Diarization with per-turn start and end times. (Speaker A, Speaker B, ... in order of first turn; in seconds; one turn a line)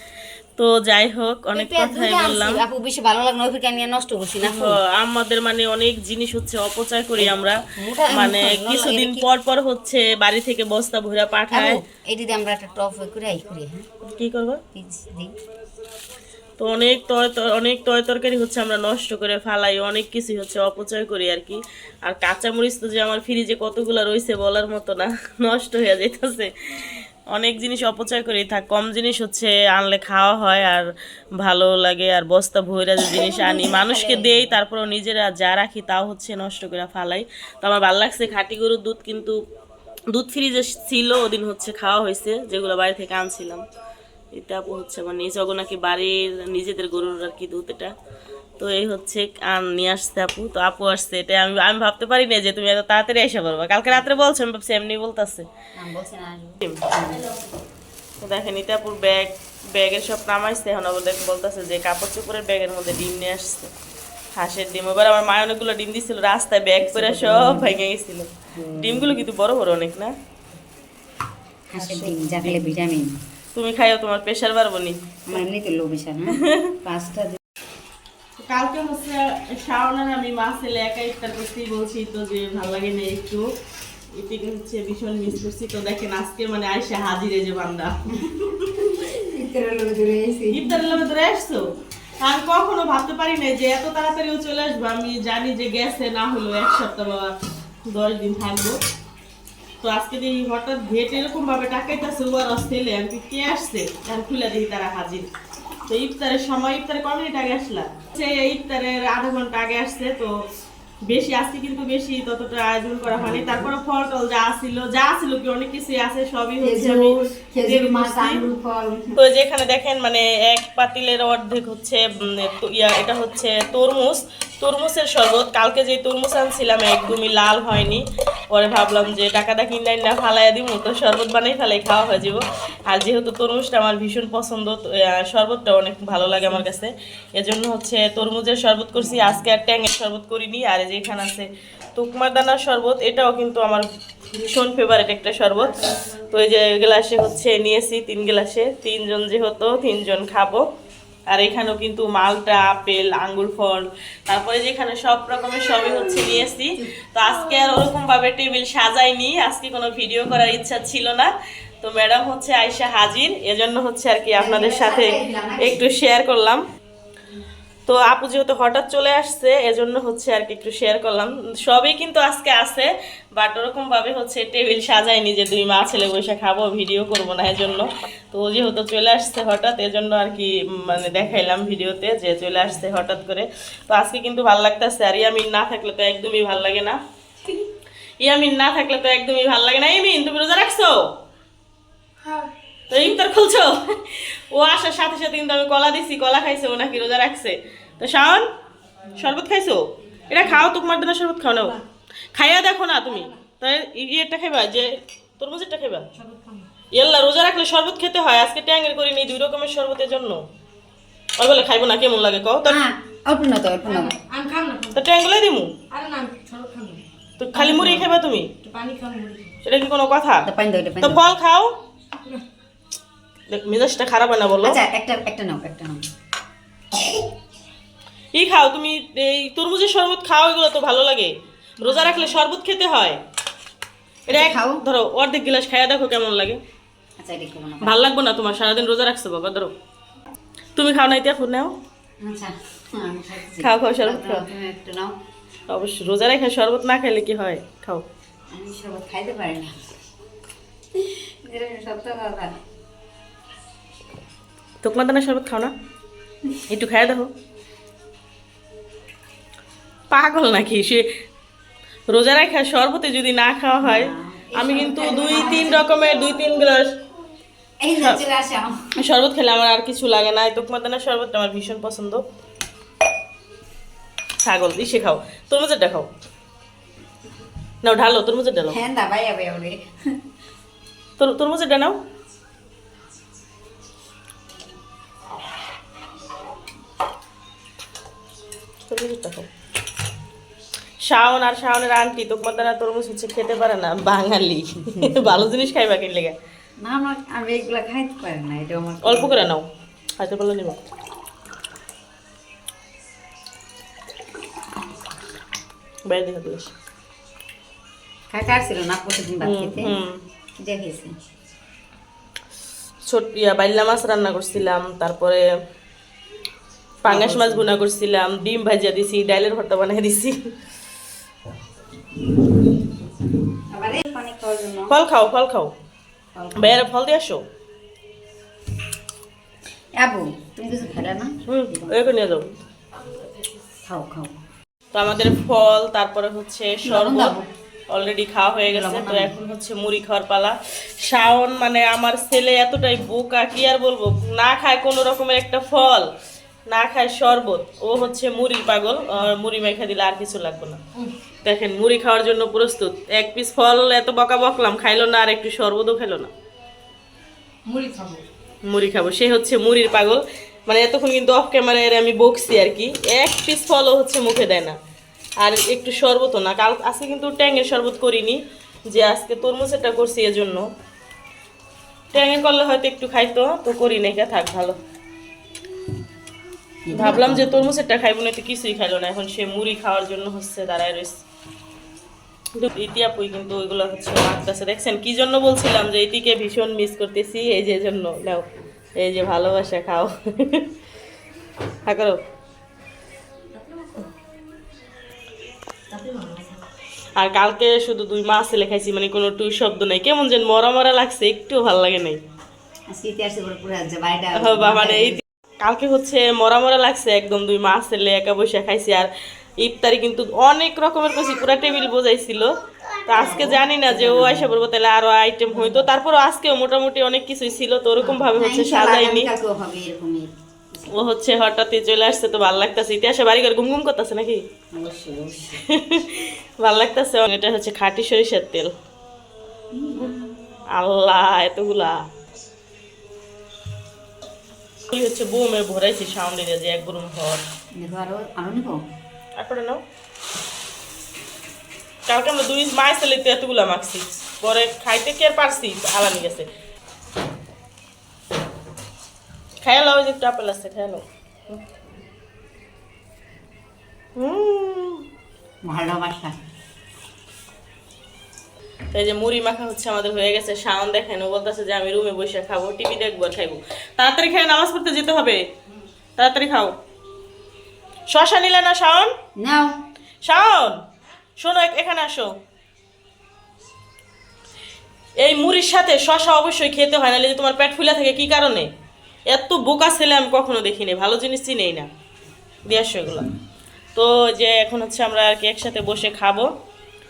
Speaker A: 0.6-2.6
Speaker B: 1.5-4.8
Speaker A: 4.4-11.8
Speaker B: 7.2-9.3
Speaker B: 11.5-13.9
Speaker A: 14.1-14.6
Speaker B: 14.7-15.3
Speaker A: 16.6-30.9
Speaker A: 31.4-39.4
Speaker B: 33.1-34.6
Speaker A: 40.1-43.6
Speaker A: 44.3-47.9
Speaker A: 48.6-55.5
Speaker B: 55.8-57.3
Speaker A: 56.6-56.9
Speaker A: 58.2-63.7
Speaker A: 64.4-70.1
Speaker B: 66.8-67.8
Speaker B: 68.5-69.3
Speaker B: 71.7-73.2
Speaker A: 71.8-72.6
Speaker A: 73.5-75.4
Speaker B: 75.3-77.4
Speaker A: 76.4-76.7
Speaker A: 78.4-83.5
Speaker A: 84.2-88.9
Speaker B: 88.8-91.0
Speaker A: 90.5-91.6
Speaker A: 92.2-97.3
Speaker A: 97.9-98.8
Speaker A: 99.8-105.3
Speaker A: 105.9-110.3
Speaker A: 111.1-118.5
Speaker B: 113.1-113.7
Speaker B: 116.6-119.2
Speaker A: 119.2-150.6
Speaker B: 139.0-139.4
Speaker A: 151.3-161.3
Speaker A: 161.8-166.6
Speaker B: 164.3-165.9
Speaker A: 167.9-187.0
Speaker A: 188.2-191.1
Speaker A: 192.9-198.5
Speaker A: 199.1-201.8
Speaker A: 202.3-206.1
Speaker C: 206.2-206.7
Speaker A: 206.9-210.4
Speaker A: 211.4-212.8
Speaker B: 212.7-214.2
Speaker C: 213.9-215.0
Speaker A: 214.9-215.8
Speaker C: 215.9-217.1
Speaker A: 217.4-218.5
Speaker B: 217.6-218.1
Speaker C: 218.6-219.6
Speaker A: 219.6-220.5
Speaker B: 220.4-221.2
Speaker A: 221.0-221.8
Speaker A: 223.5-224.8
Speaker B: 224.6-226.0
Speaker A: 228.3-233.2
Speaker B: 231.8-232.4
Speaker B: 234.3-234.8
Speaker A: 234.3-236.6
Speaker B: 237.2-238.0
Speaker A: 237.8-239.7
Speaker A: 240.8-241.7
Speaker B: 242.2-245.1
Speaker A: 243.6-244.5
Speaker A: 245.7-248.1
Speaker B: 248.5-249.7
Speaker B: 251.0-252.6
Speaker A: 254.8-255.7
Speaker A: 256.7-257.3
Speaker A: 260.1-261.1
Speaker A: 262.1-266.9
Speaker B: 263.8-265.9
Speaker B: 267.8-268.9
Speaker A: 267.9-268.2
Speaker A: 269.0-272.2
Speaker A: 274.4-276.1
Speaker A: 277.8-278.8
Speaker B: 278.7-279.9
Speaker A: 281.2-282.0
Speaker A: 288.9-289.5
Speaker A: 291.1-296.4
Speaker B: 294.9-295.5
Speaker B: 296.8-299.4
Speaker A: 299.0-299.6
Speaker A: 300.2-300.8
Speaker A: 306.1-306.7
Speaker B: 308.3-310.0
Speaker A: 309.4-310.2
Speaker B: 310.6-311.1
Speaker A: 313.1-315.4
Speaker A: 317.0-320.4
Speaker B: 317.1-317.7
Speaker B: 323.7-325.0
Speaker A: 324.9-325.7
Speaker B: 326.4-326.9
Speaker A: 326.6-327.4
Speaker B: 330.0-332.1
Speaker A: 331.5-332.5
Speaker B: 333.9-334.3
Speaker A: 334.9-337.3
Speaker B: 336.9-337.5
Speaker A: 337.9-346.1
Speaker B: 338.7-339.4
Speaker A: 346.7-350.8
Speaker A: 351.4-356.3
Speaker C: 357.7-358.2
Speaker A: 358.7-364.8
Speaker A: 365.4-368.4
Speaker A: 368.9-370.6
Speaker A: 372.1-374.8
Speaker B: 376.9-377.7
Speaker A: 376.9-381.2
Speaker A: 382.6-388.4
Speaker A: 389.0-390.7
Speaker A: 391.9-392.2
Speaker C: 393.6-394.1
Speaker C: 395.9-396.6
Speaker A: 397.2-402.2
Speaker B: 402.9-405.2
Speaker A: 404.3-409.1
Speaker A: 409.6-412.5
Speaker A: 413.1-419.3
Speaker B: 413.1-414.6
Speaker B: 415.5-415.9
Speaker B: 418.0-420.9
Speaker A: 420.9-424.4
Speaker B: 424.7-425.6
Speaker A: 425.6-428.7
Speaker B: 429.7-430.4
Speaker A: 430.8-432.0
Speaker A: 434.9-437.4
Speaker B: 437.8-438.8
Speaker A: 439.4-439.8
Speaker A: 442.1-446.5
Speaker A: 449.6-451.6
Speaker A: 454.2-455.1
Speaker B: 455.6-456.4
Speaker A: 458.9-465.4
Speaker A: 466.2-466.7
Speaker A: 468.1-469.1
Speaker B: 469.4-469.8
Speaker A: 470.2-470.8
Speaker A: 471.4-472.3
Speaker A: 475.2-478.7
Speaker A: 479.3-481.9
Speaker A: 482.7-483.3
Speaker A: 483.9-486.5